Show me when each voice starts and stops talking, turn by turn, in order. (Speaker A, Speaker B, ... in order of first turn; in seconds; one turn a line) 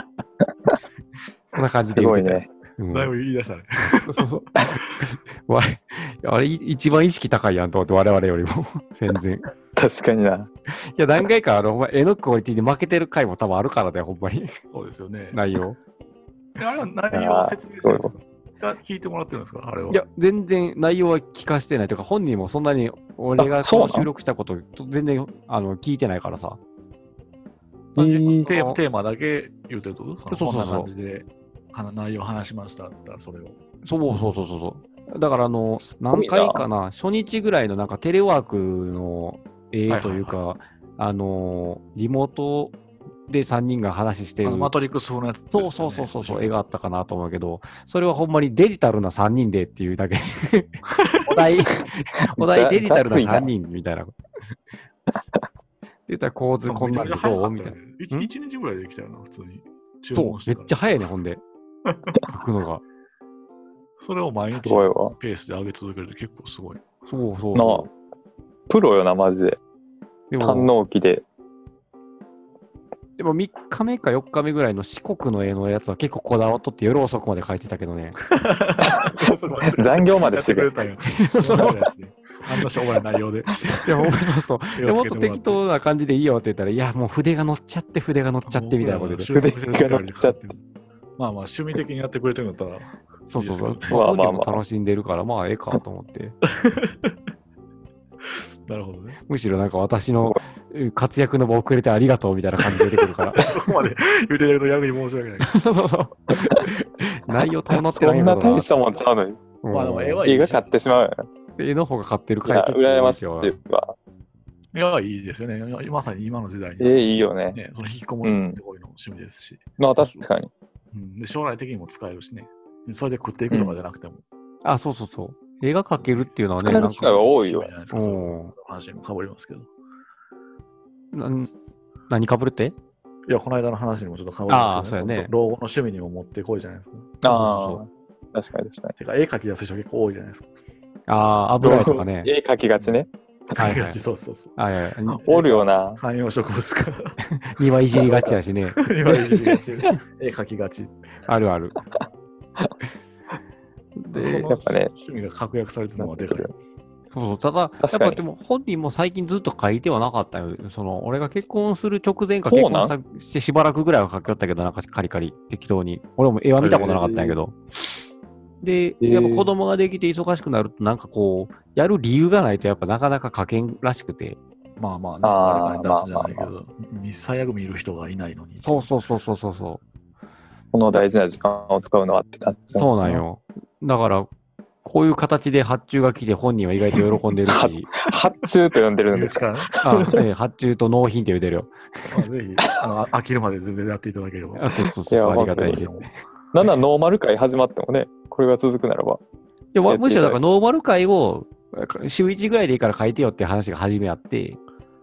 Speaker A: 1.5-3.1
Speaker B: 1.9-2.5
Speaker C: 2.9-4.2
Speaker A: 4.0-9.5
Speaker B: 9.8-10.5
Speaker A: 10.7-14.5
Speaker C: 14.7-15.4
Speaker A: 15.3-15.8
Speaker C: 16.6-20.0
Speaker B: 17.1-18.1
Speaker A: 19.9-26.6
Speaker B: 23.4-24.1
Speaker B: 28.0-28.5
Speaker C: 28.0-33.6
Speaker A: 28.2-28.8
Speaker A: 30.3-30.9
Speaker A: 33.8-42.8
Speaker B: 36.0-36.6
Speaker C: 39.9-40.4
Speaker A: 43.3-44.7
Speaker C: 44.4-46.5
Speaker A: 45.5-54.1
Speaker B: 52.4-53.5
Speaker A: 56.1-58.3
Speaker C: 56.6-60.8
Speaker A: 60.1-61.4
Speaker C: 61.9-62.2
Speaker A: 62.3-62.8
Speaker C: 64.0-66.8
Speaker B: 64.5-65.1
Speaker A: 67.1-67.9
Speaker B: 67.5-67.9
Speaker B: 68.7-69.6
Speaker A: 70.3-70.7
Speaker B: 70.4-71.2
Speaker A: 73.2-78.2
Speaker C: 78.3-83.9
Speaker B: 79.8-80.7
Speaker A: 81.1-81.8
Speaker A: 83.7-89.3
Speaker C: 84.8-85.6
Speaker C: 88.5-90.6
Speaker B: 89.3-90.4
Speaker C: 91.2-94.0
Speaker A: 93.3-96.4
Speaker B: 93.9-94.6
Speaker C: 96.7-97.2
Speaker C: 98.7-99.2
Speaker A: 99.3-103.5
Speaker C: 103.4-105.5
Speaker A: 105.4-108.7
Speaker B: 107.9-109.4
Speaker A: 109.6-110.2
Speaker C: 109.7-110.8
Speaker B: 110.2-111.2
Speaker A: 111.6-113.5
Speaker B: 112.5-114.0
Speaker C: 114.7-119.6
Speaker B: 116.8-117.6
Speaker B: 118.2-118.6
Speaker B: 119.8-120.5
Speaker C: 120.9-124.2
Speaker B: 123.5-123.8
Speaker A: 124.6-127.2
Speaker C: 126.0-129.7
Speaker B: 126.6-127.7
Speaker A: 127.9-128.5
Speaker A: 131.1-131.5
Speaker A: 132.1-132.8
Speaker C: 133.3-137.2
Speaker A: 134.5-135.3
Speaker B: 137.2-138.9
Speaker A: 137.3-137.8
Speaker C: 139.0-140.5
Speaker A: 141.1-142.3
Speaker B: 141.6-143.1
Speaker C: 142.8-144.6
Speaker A: 143.6-144.0
Speaker A: 144.6-145.2
Speaker B: 145.1-146.0
Speaker C: 145.2-147.2
Speaker A: 147.2-148.8
Speaker C: 147.9-150.9
Speaker A: 151.3-151.8
Speaker A: 154.0-154.5
Speaker C: 154.1-156.5
Speaker B: 154.5-154.9
Speaker B: 156.0-156.5
Speaker A: 157.1-167.6
Speaker B: 157.8-158.2
Speaker B: 162.5-162.9
Speaker B: 166.6-167.4
Speaker A: 168.6-174.4
Speaker B: 169.0-169.5
Speaker C: 174.8-178.9
Speaker B: 175.2-176.5
Speaker A: 178.6-179.8
Speaker B: 180.7-182.9
Speaker A: 182.7-184.3
Speaker C: 183.0-183.2
Speaker A: 184.8-187.9
Speaker B: 187.5-190.2
Speaker C: 189.1-190.2
Speaker A: 189.8-192.1
Speaker C: 192.1-194.9
Speaker A: 194.6-196.1
Speaker B: 195.1-195.8
Speaker C: 195.5-196.1
Speaker B: 196.5-199.2
Speaker A: 199.7-204.6
Speaker B: 199.9-200.4